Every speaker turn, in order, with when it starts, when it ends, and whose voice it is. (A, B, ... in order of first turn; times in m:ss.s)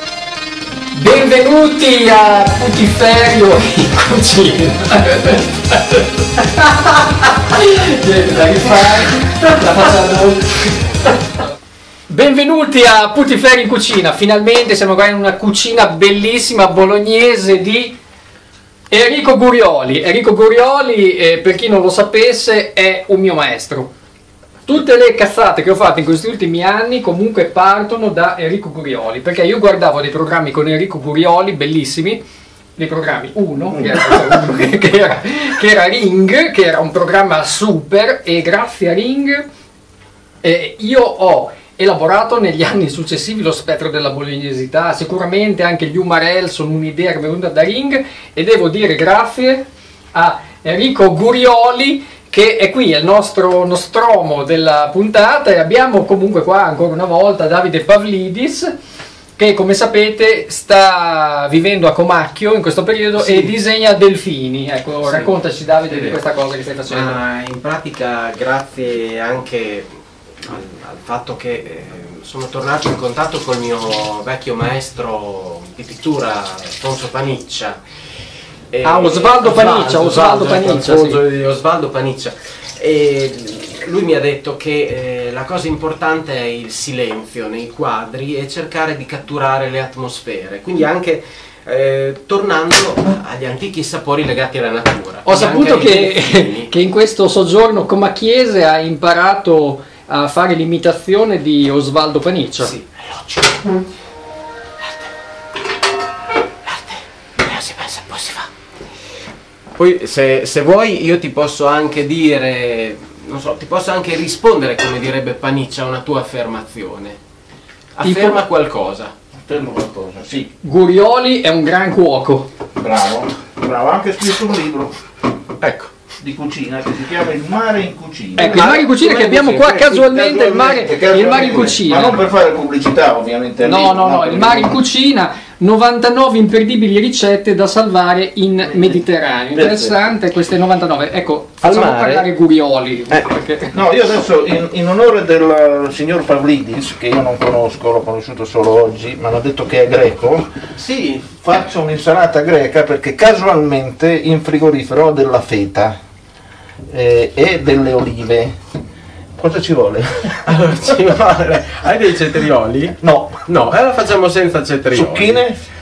0:00.9-0:11.2 A
0:12.1-0:18.0 A
0:18.9-0:23.9 A
0:24.7-0:32.2 A
0:32.8-0:39.5 A
0:33.7-0:34.4 B
0:40.4-0:58.7 A
0:59.4-1:07.2 A
1:03.2-1:03.5 C
1:05.1-1:05.3 C
1:05.9-1:06.2 C
1:06.9-1:09.9 C
1:10.4-1:17.8 C
1:18.7-1:36.7 C
1:18.8-1:21.2 A
1:35.2-1:42.7 A
1:42.6-1:43.6 C
1:44.8-1:45.1 C
1:46.6-1:48.5 C
1:49.8-1:57.2 C
1:57.9-1:59.1 C
1:58.0-1:58.4 A
1:59.4-2:00.5 B
2:00.6-2:02.5 A
2:02.8-2:05.0 B
2:05.6-2:05.9 C
2:06.2-2:08.8 B
2:08.4-2:10.6 C
2:08.4-2:12.2 A
2:10.2-2:14.8 B
2:13.6-2:23.8 A
2:19.5-2:20.0 B
2:21.6-2:22.3 C
2:23.7-2:30.5 B
2:30.7-2:31.3 C
2:31.3-2:36.0 B
2:36.9-2:38.5 B
2:39.4-2:40.7 B
2:40.4-2:45.4 C
2:43.0-2:43.4 B
2:44.9-2:45.6 B